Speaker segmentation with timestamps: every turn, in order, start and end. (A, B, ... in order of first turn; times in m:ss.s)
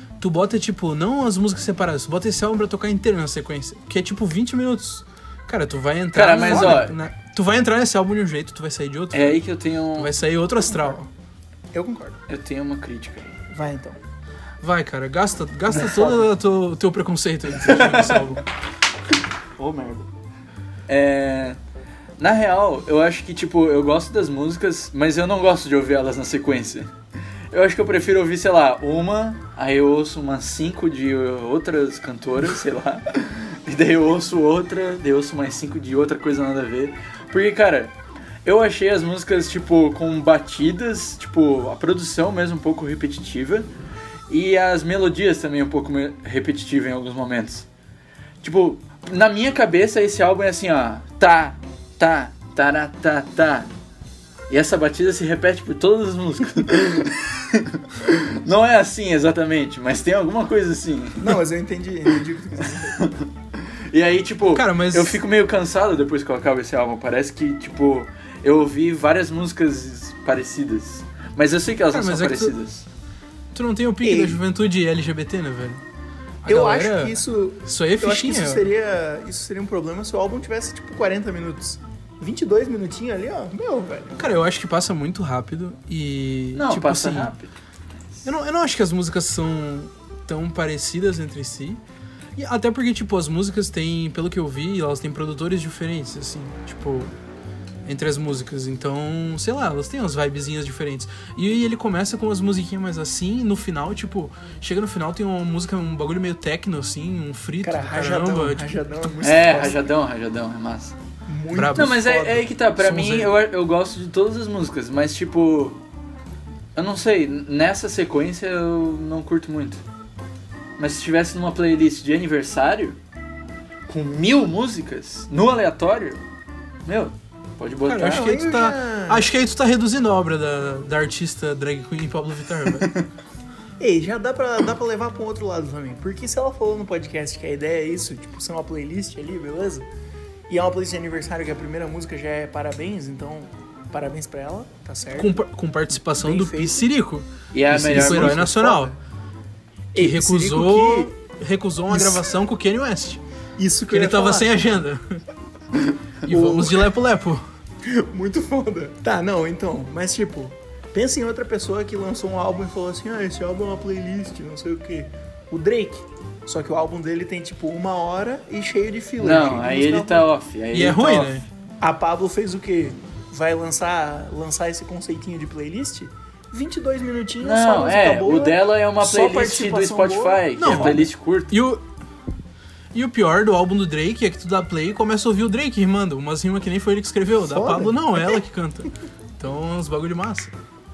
0:00.2-0:09.4 A
0:06.1-0:07.0 B
0:06.5-0:06.8 C
0:09.1-0:10.1 B
0:09.9-0:11.0 A
0:10.6-0:11.1 C
0:11.7-0:12.2 C
0:12.3-0:13.4 B
0:13.5-0:14.0 C
0:14.6-0:18.4 A
0:15.7-0:16.2 C
0:17.6-0:18.3 B
0:19.6-0:20.1 B
0:20.9-0:21.6 B
0:22.2-0:26.9 B
0:27.5-0:37.9 B
0:38.4-0:43.7 B
0:44.3-0:47.7 B
0:48.4-0:53.7 B
0:54.5-1:01.4 B
1:01.2-1:03.1 C
1:03.0-1:12.9 B
1:04.5-1:05.2 A
1:11.9-1:12.5 A
1:13.5-1:15.8 A
1:14.0-1:14.4 C
1:16.4-1:18.7 A
1:16.5-1:24.2 C
1:24.2-1:27.3 A
1:26.6-1:27.5 B
1:28.2-1:31.8 A
1:32.4-1:37.1 A
1:37.8-1:48.7 A
1:47.6-1:49.8 C
1:49.2-1:51.0 B
1:51.3-1:52.5 C
1:51.5-1:52.0 A
1:51.8-1:55.8 B
1:52.8-1:53.4 A
1:56.8-1:59.8 B
2:00.8-2:03.0 B
2:03.9-2:06.2 B
2:06.9-2:08.4 B
2:07.9-2:12.9 A
2:08.0-2:09.3 C
2:13.8-2:19.9 C
2:20.5-2:25.4 C
2:25.2-2:28.9 A
2:26.1-2:26.9 C
2:27.5-2:28.5 B
2:27.7-2:29.0 C
2:30.0-2:31.1 C
2:30.0-2:33.2 A
2:31.9-2:32.2 C
2:33.6-2:34.6 C
2:33.9-2:35.2 A
2:36.2-2:37.4 A
2:36.3-2:36.9 C
2:37.8-2:50.3 C
2:49.2-2:51.4 B
2:50.7-2:51.5 A
2:51.8-3:01.1 C
2:57.4-3:01.6 B
3:00.6-3:01.8 A
3:02.9-3:10.5 A
3:07.4-3:08.4 C